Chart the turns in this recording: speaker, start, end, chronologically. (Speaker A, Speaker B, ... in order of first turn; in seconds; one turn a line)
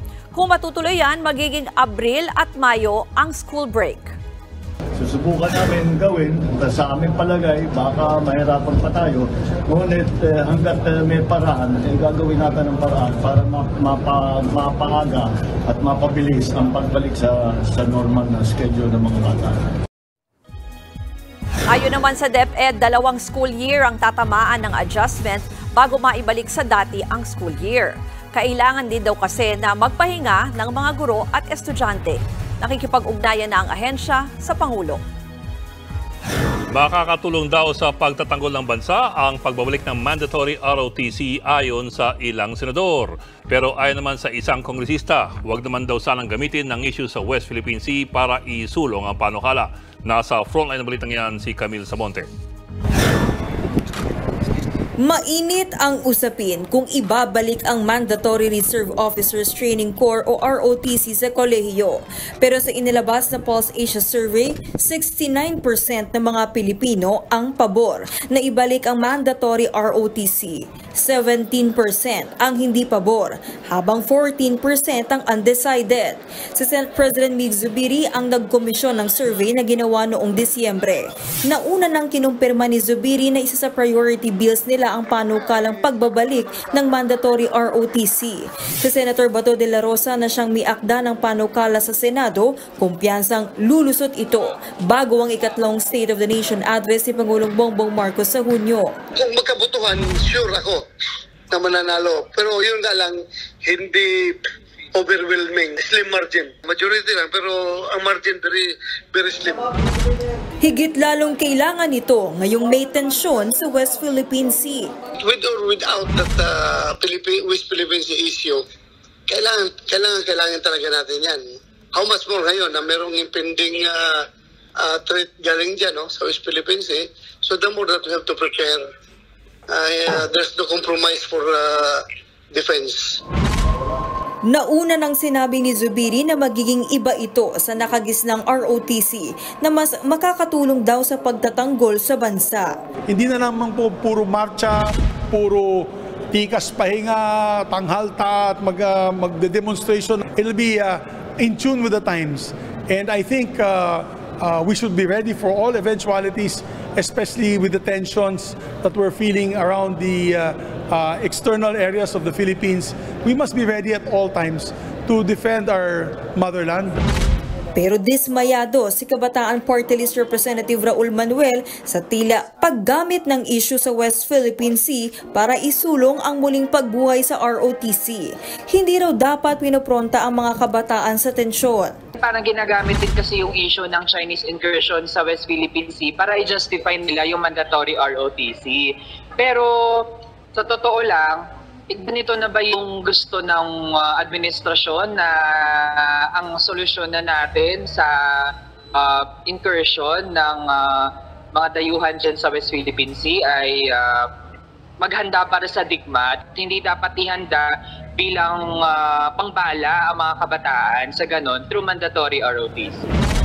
Speaker A: 0.3-4.1
Speaker B: 5.0-19.8
Speaker A: 21.7-35.0
Speaker C: 36.7-52.3
Speaker D: 55.0-98.9
Speaker E: 99.2-100.8
Speaker E: 101.5-104.4
Speaker E: 105.0-109.6
Speaker D: 110.6-114.9
Speaker E: 115.2-118.6
Speaker E: 119.3-124.2
Speaker E: 124.8-128.9
Speaker E: 129.7-133.2
Speaker D: 134.5-142.7
Speaker F: 143.1-144.8
Speaker F: 145.3-166.9
Speaker D: 167.8-181.9
Speaker G: 182.2-204.3
Speaker G: 205.0-213.0